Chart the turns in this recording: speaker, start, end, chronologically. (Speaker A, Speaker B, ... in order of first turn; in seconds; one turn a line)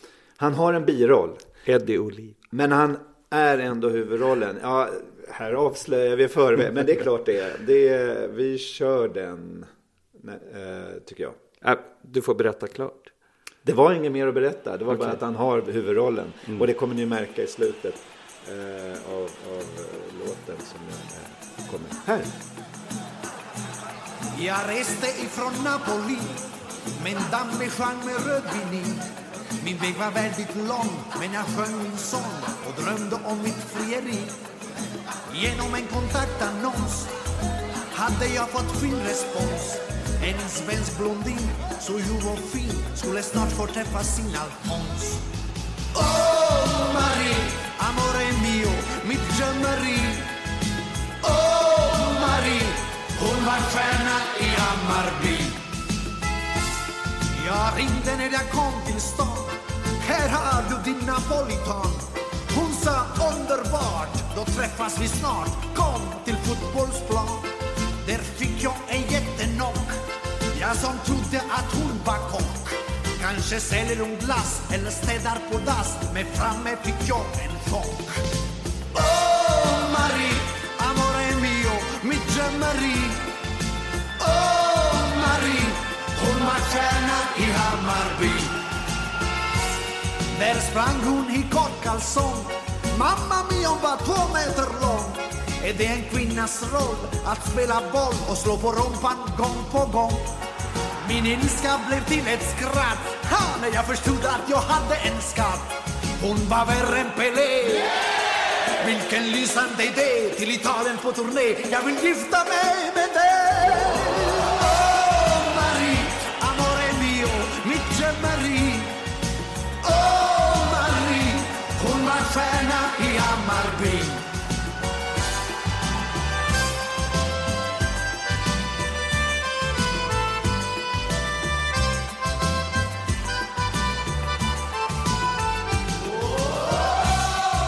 Speaker A: 0.4-1.4
Speaker B: 1.7-2.4
Speaker A: 2.5-11.4
Speaker B: 11.6-13.1
Speaker A: 13.6-22.3
Speaker B: 14.9-15.2
Speaker C: 24.3-34.4
Speaker C: 35.3-37.1
Speaker C: 37.9-45.2
Speaker C: 45.9-50.3
Speaker C: 51.2-55.6
Speaker C: 57.3-67.5
Speaker C: 68.0-78.3
Speaker C: 78.9-83.3
Speaker C: 84.2-88.6
Speaker C: 90.3-100.2
Speaker C: 101.0-108.0
Speaker C: 108.8-119.0
Speaker C: 119.8-124.3
Speaker C: 136.4-137.0